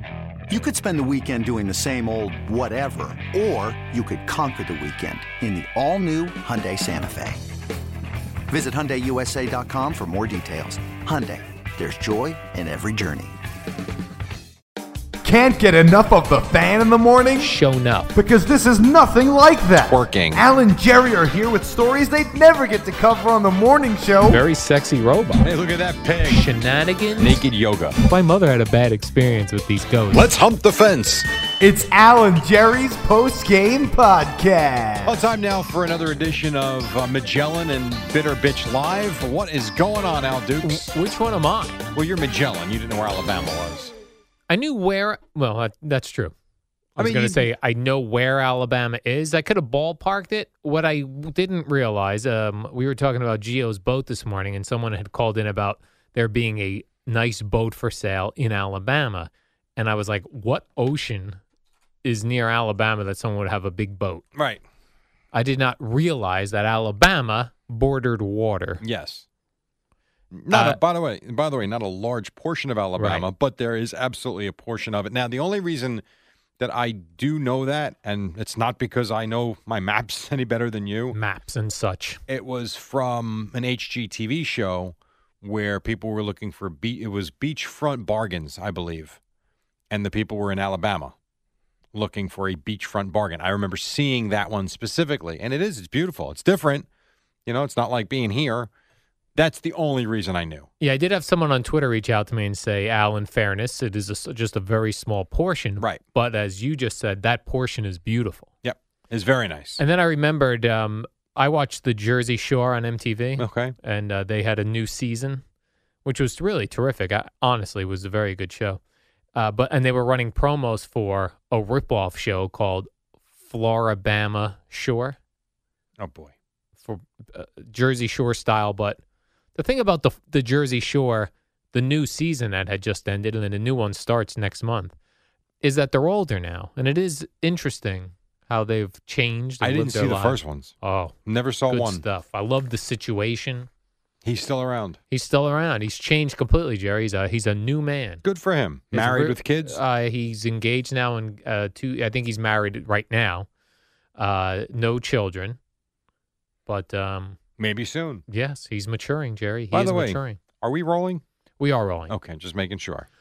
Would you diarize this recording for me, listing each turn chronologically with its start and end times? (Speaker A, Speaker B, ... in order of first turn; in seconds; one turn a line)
Speaker A: 0.5-7.4
Speaker A: 8.5-13.4
Speaker B: 15.2-17.5
Speaker C: 17.4-18.1
Speaker B: 18.1-24.4
Speaker D: 19.8-20.4
Speaker C: 24.3-25.5
Speaker D: 25.4-26.5
Speaker C: 26.2-27.4
Speaker D: 27.2-28.0
Speaker C: 28.0-30.3
Speaker D: 30.1-31.2
Speaker B: 31.6-35.2
Speaker D: 35.0-40.9
Speaker C: 40.6-41.8
Speaker D: 41.9-43.9
Speaker C: 44.5-46.3
Speaker D: 47.0-47.5
Speaker C: 47.0-61.4
Speaker C: 62.0-64.2
Speaker D: 64.3-64.6
Speaker C: 65.3-68.8
Speaker D: 68.8-69.2
Speaker D: 70.3-76.0
Speaker C: 70.5-70.8
Speaker C: 73.0-73.2
Speaker D: 76.6-81.2
Speaker C: 81.1-82.2
Speaker D: 82.3-89.2
Speaker D: 89.9-91.1
Speaker D: 91.9-96.8
Speaker D: 97.5-98.7
Speaker D: 99.3-100.7
Speaker C: 100.8-108.5
Speaker D: 108.6-109.8
Speaker C: 109.8-115.4
Speaker D: 113.4-113.8
Speaker C: 116.0-118.8
Speaker C: 119.3-122.9
Speaker C: 123.5-125.2
Speaker D: 126.0-126.3
Speaker C: 126.8-129.0
Speaker C: 129.6-134.9
Speaker C: 135.6-141.1
Speaker D: 139.6-142.0
Speaker C: 141.7-143.7
Speaker D: 144.2-145.0
Speaker C: 145.1-148.2
Speaker D: 148.2-149.8
Speaker C: 148.9-153.5
Speaker C: 154.2-155.6
Speaker C: 156.7-157.4
Speaker D: 157.6-158.2
Speaker C: 158.3-160.4
Speaker D: 159.7-161.2
Speaker C: 161.6-162.2
Speaker D: 162.1-163.1